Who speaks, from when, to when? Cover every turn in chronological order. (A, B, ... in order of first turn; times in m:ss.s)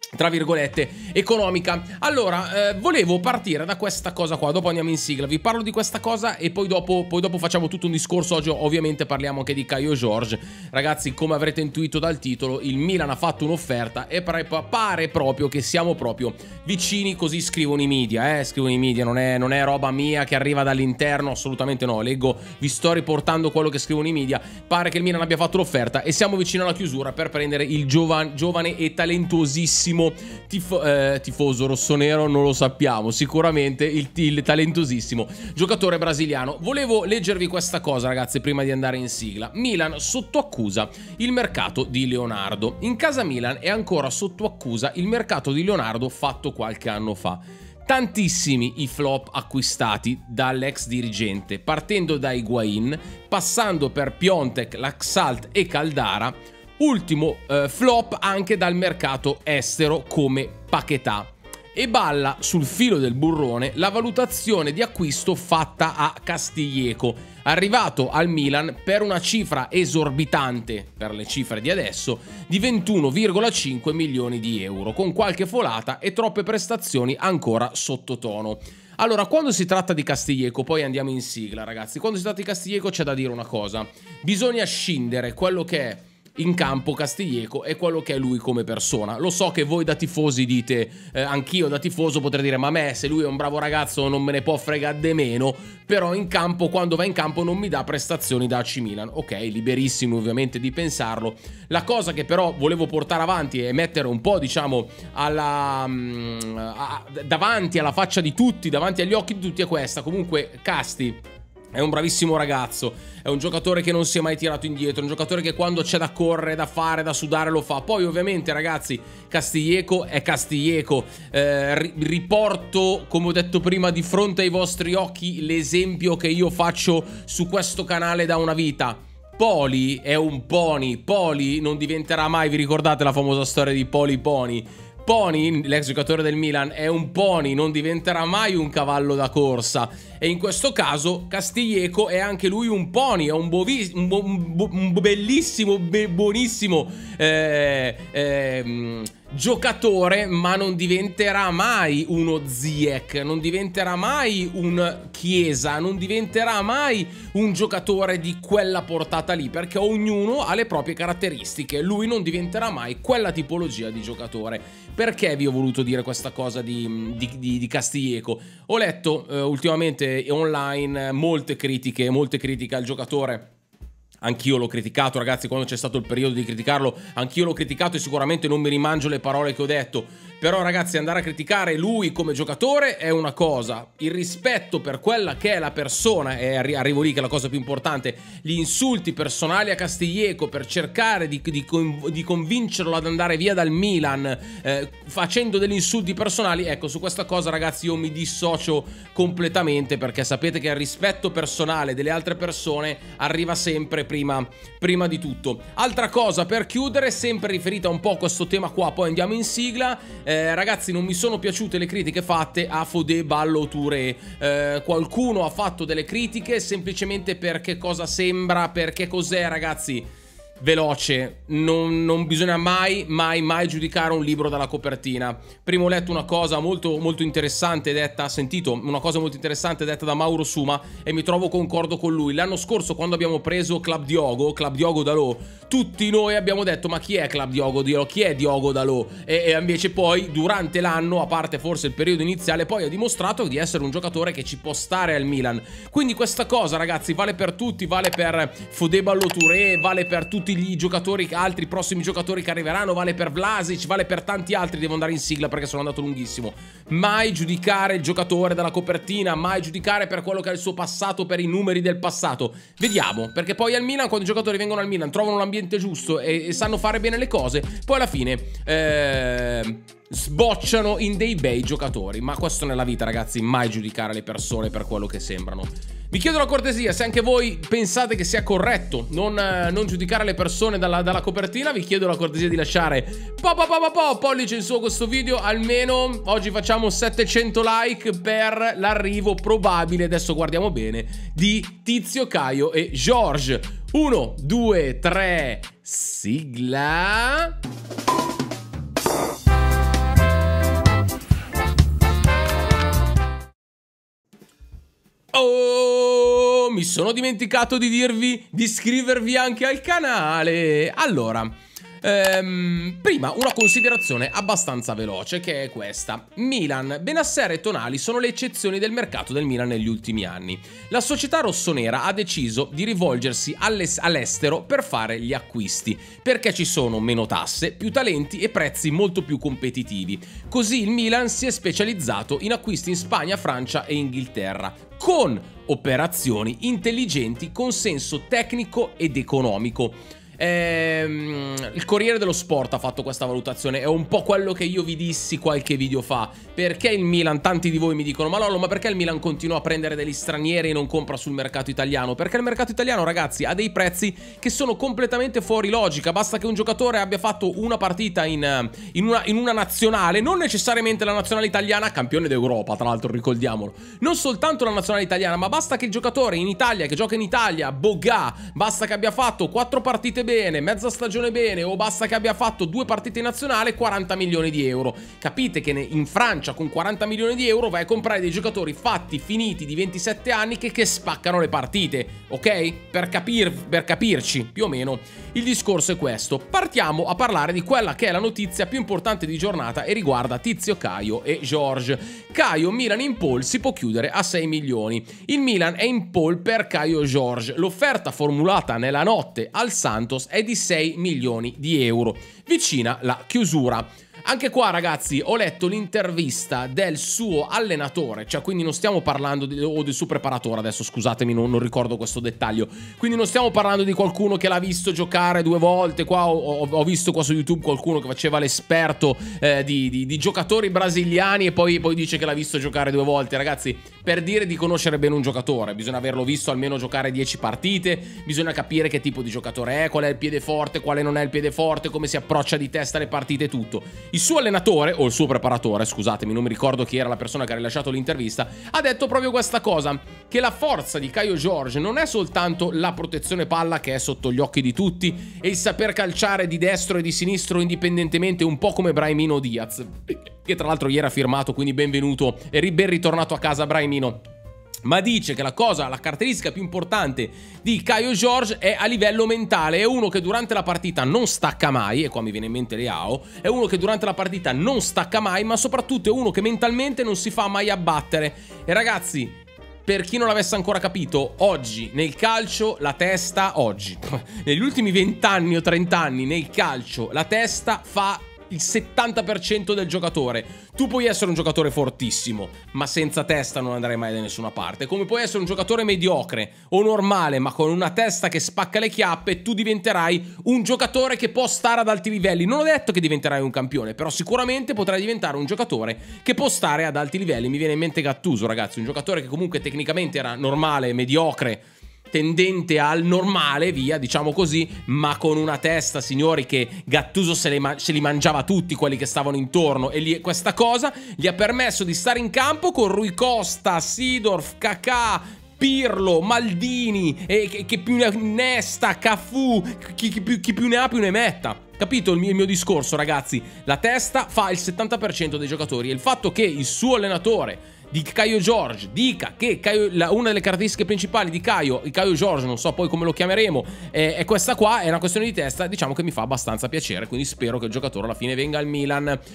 0:00.1-1:51.2 A
1:51.7-2:53.5 A
2:54.2-3:40.1 A
3:40.6-4:57.5 A
5:05.3-7:34.2 A
7:34.8-8:59.2 A